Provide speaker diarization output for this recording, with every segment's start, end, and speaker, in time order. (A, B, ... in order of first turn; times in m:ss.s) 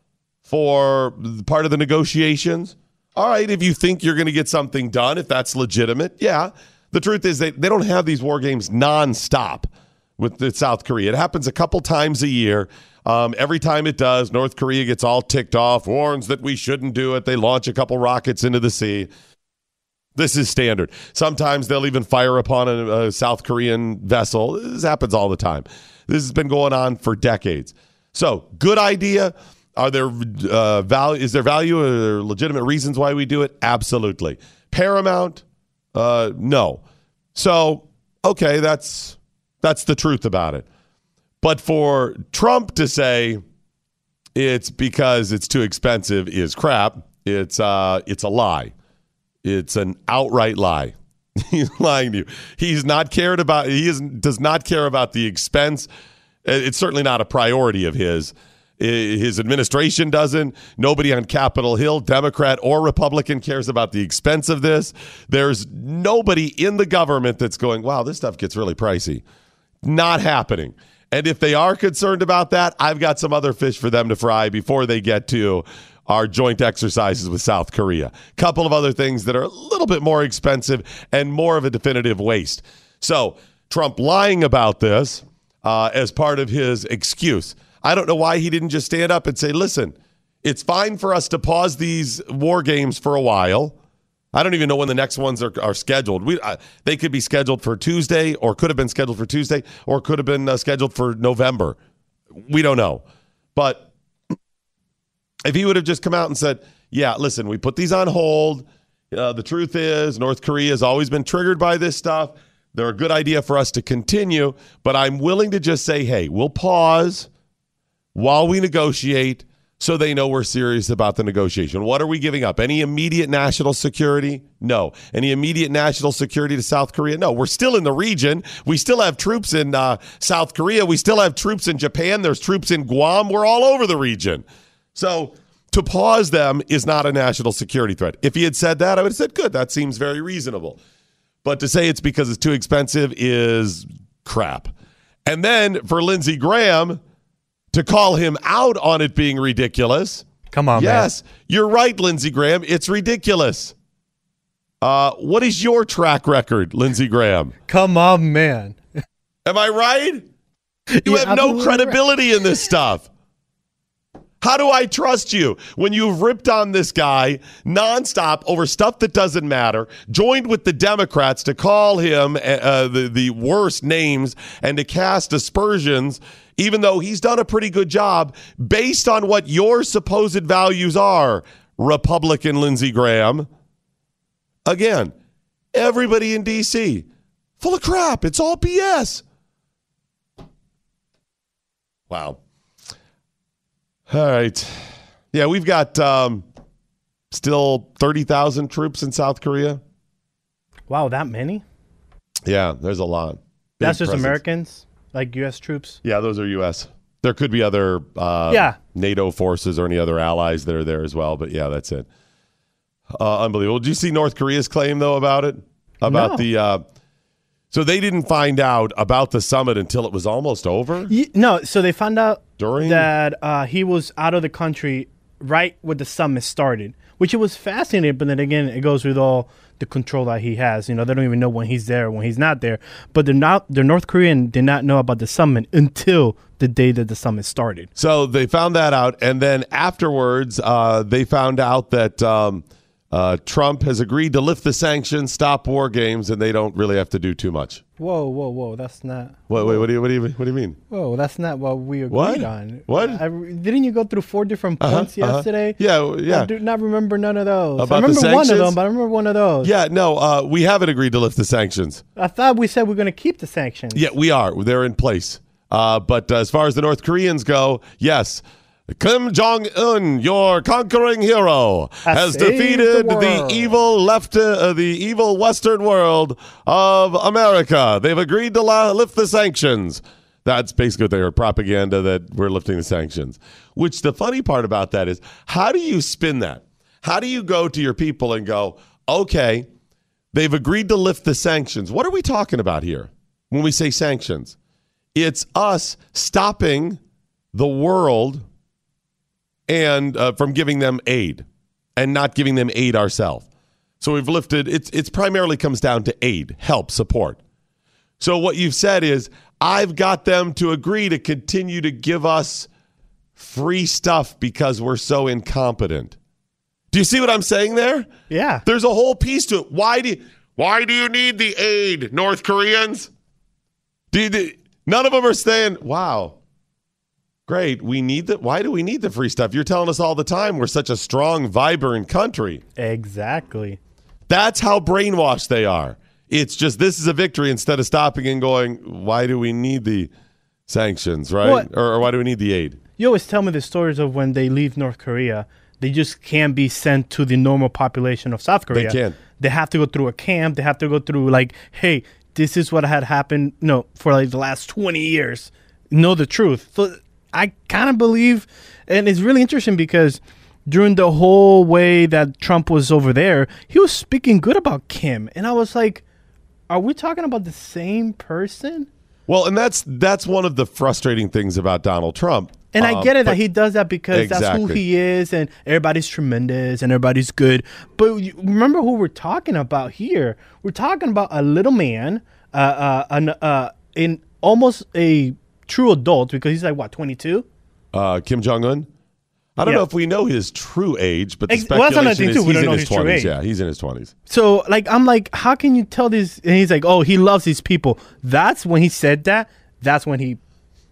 0:00.5-0:19.1 A
0:20.2-0:35.4 A
0:36.0-0:36.8 A
0:37.4-0:40.6 A
0:41.4-0:43.4 A
0:44.4-0:48.7 A
0:49.4-0:55.9 A
0:56.4-1:09.2 A
1:09.8-1:33.8 A
1:34.3-1:41.8 A
1:42.4-1:43.0 A
1:43.6-1:43.9 A
1:45.5-1:57.3 A
1:58.2-2:20.8 A
2:21.4-2:24.7 A
2:25.3-2:27.0 A
2:27.7-2:33.7 A
2:30.5-2:31.1 B
2:34.8-2:37.5 A
2:37.7-2:38.8 B
2:39.5-2:40.2 A
2:40.9-2:42.0 B
2:41.1-2:43.1 A
2:44.4-3:03.5 A
3:04.7-3:05.1 A
3:05.7-3:07.1 A
3:07.6-3:09.2 A
3:12.1-3:12.4 A
3:14.1-3:16.4 A
3:17.3-3:19.8 A
3:20.9-3:21.6 B
3:22.5-3:24.4 A
3:23.8-3:26.0 B
3:26.0-3:32.1 A
3:28.5-3:28.8 B
3:33.2-3:36.8 A
3:36.1-3:36.4 B
3:37.7-3:41.1 A
3:41.1-3:57.9 B
3:42.6-3:43.1 A
3:58.0-4:07.8 A
4:08.0-4:09.9 B
4:09.5-4:10.8 A
4:10.9-4:19.7 B
4:12.1-4:13.2 A
4:14.8-4:16.5 A
4:17.8-4:18.8 A
4:19.6-4:22.0 A
4:22.2-4:24.1 B
4:23.9-4:49.7 A
4:32.1-4:33.8 B
4:50.3-4:54.6 A
4:55.2-4:57.0 A
4:57.5-4:58.4 A
4:59.7-5:01.4 A
5:02.0-5:03.5 A
5:04.0-5:07.4 A
5:08.2-5:12.7 A
5:13.4-5:16.2 A
5:16.9-5:18.1 A
5:18.3-5:18.6 B
5:18.6-5:23.1 A
5:24.1-5:26.4 A
5:27.5-5:32.6 A
5:32.8-5:33.8 B
5:34.3-5:40.1 A
5:40.7-5:42.8 A
5:43.0-6:06.0 B
5:48.7-5:49.2 A
6:06.7-6:08.9 B
6:09.3-6:13.4 A
6:12.7-6:27.5 B
6:14.1-6:14.8 A
6:27.9-6:28.9 A
6:29.6-6:34.1 A
6:31.5-6:33.3 B
6:34.3-6:40.4 B